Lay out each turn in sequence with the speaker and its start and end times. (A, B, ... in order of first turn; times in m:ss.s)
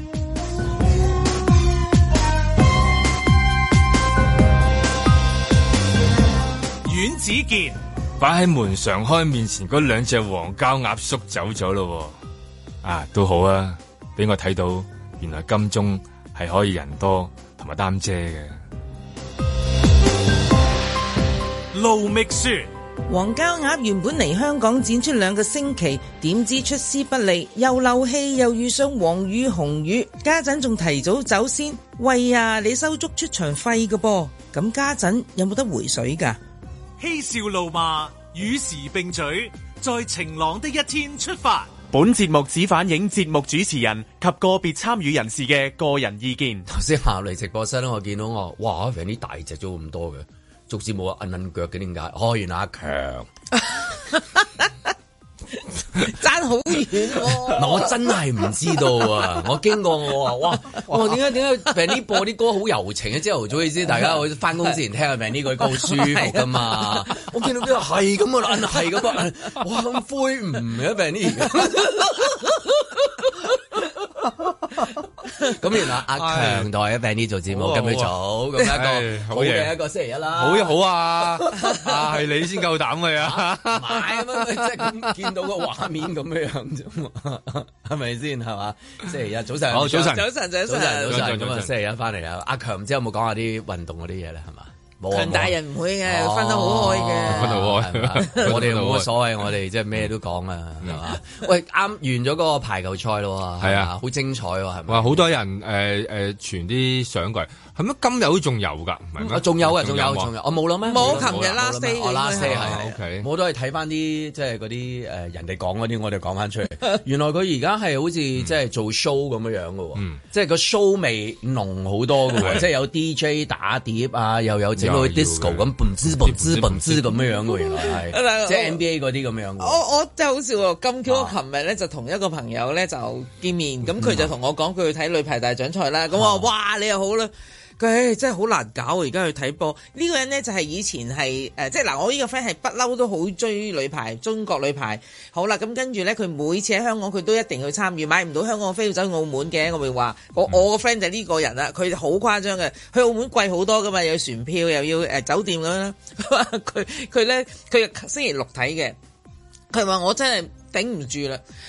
0:06.8-0:07.8 A
0:08.2-0:12.2 B
0:12.8-0:18.6 B
0:21.7-0:22.7 A
0:23.1-0:36.4 C
0:37.0-0:41.8 A
0:41.9-0:46.6 D
0:46.7-0:53.3 E
0:53.6-0:54.7 C
0:55.9-0:58.2 C
0:57.2-1:12.6 E
1:00.7-1:01.2 C
1:05.7-1:07.1 C
1:13.2-1:13.5 E
1:15.6-1:21.6 E
1:16.2-1:16.7 B
1:17.5-1:19.8 B
1:20.4-1:25.1 B
1:23.2-1:45.3 E
1:29.7-1:30.3 B
1:30.1-1:31.2 C
1:31.0-1:31.7 B
1:35.1-1:37.6 C
1:37.2-1:39.1 B
1:43.6-1:43.9 B
1:44.9-1:50.3 B
1:49.2-2:09.8 E
1:50.9-1:52.8 C
1:50.9-1:51.6 B
1:52.3-1:53.3 B
2:00.0-2:00.2 B
2:02.4-2:02.7 B
2:04.8-2:05.7 B
2:06.2-2:07.1 B
2:07.5-2:08.8 C
2:09.6-2:39.0 C
2:11.1-2:11.4 E
2:14.0-2:14.3 E
2:16.1-2:16.5 E
2:39.7-2:41.4 C